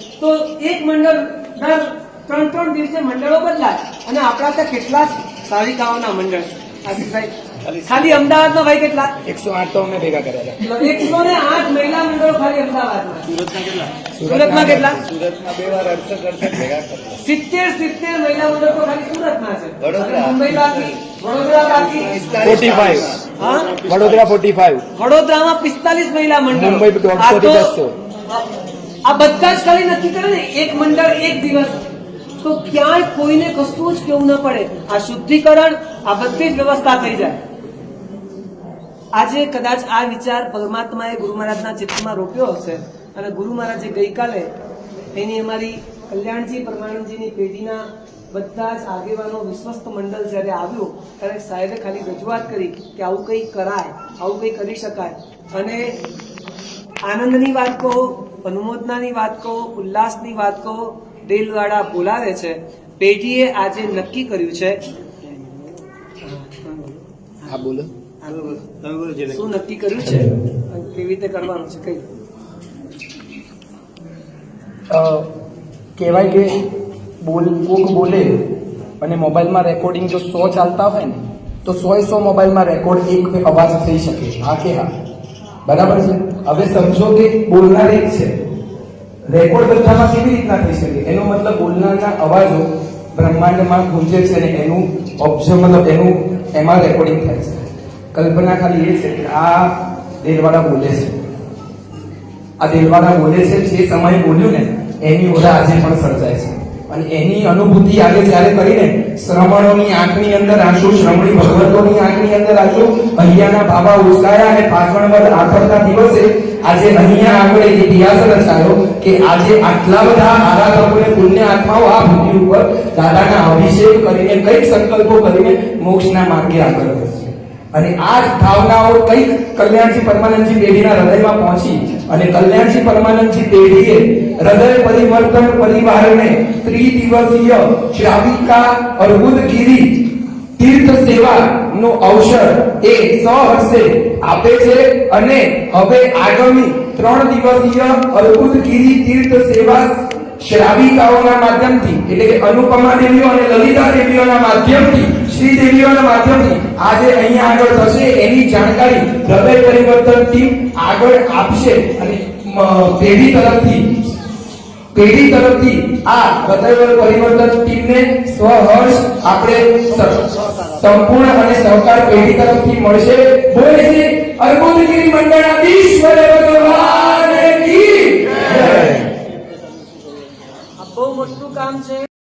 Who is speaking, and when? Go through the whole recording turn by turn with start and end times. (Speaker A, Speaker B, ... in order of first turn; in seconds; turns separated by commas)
Speaker A: 0.2-9.2, Speaker B: 9.2-11.1, Speaker A: 10.6-13.4, Speaker C: 13.4-14.0, Speaker B: 14.1-15.1, Speaker A: 14.2-15.0, Speaker C: 15.0-17.2, Speaker B: 16.4-16.7, Speaker A: 17.1-22.7, Speaker C: 19.8-20.9, Speaker C: 21.9-24.3, Speaker B: 22.4-23.2, Speaker A: 23.3-23.8, Speaker B: 23.8-24.9, Speaker A: 24.9-27.7, Speaker B: 26.5-28.0, Speaker A: 29.0-31.8, Speaker A: 32.4-37.4, Speaker A: 39.1-44.5, Speaker A: 45.1-56.0, Speaker A: 57.0-64.8, Speaker C: 65.2-65.7, Speaker A: 66.2-67.5, Speaker B: 67.5-67.9, Speaker A: 68.2-68.6, Speaker C: 68.6-69.3, Speaker A: 69.2-72.0, Speaker B: 70.0-70.3, Speaker B: 74.9-75.3, Speaker B: 76.0-84.9, Speaker B: 85.6-88.3, Speaker B: 89.3-101.2, Speaker B: 102.6-164.0, Speaker B: 164.9-179.1, Speaker C: 179.8-180.1, Speaker A: 180.8-182.1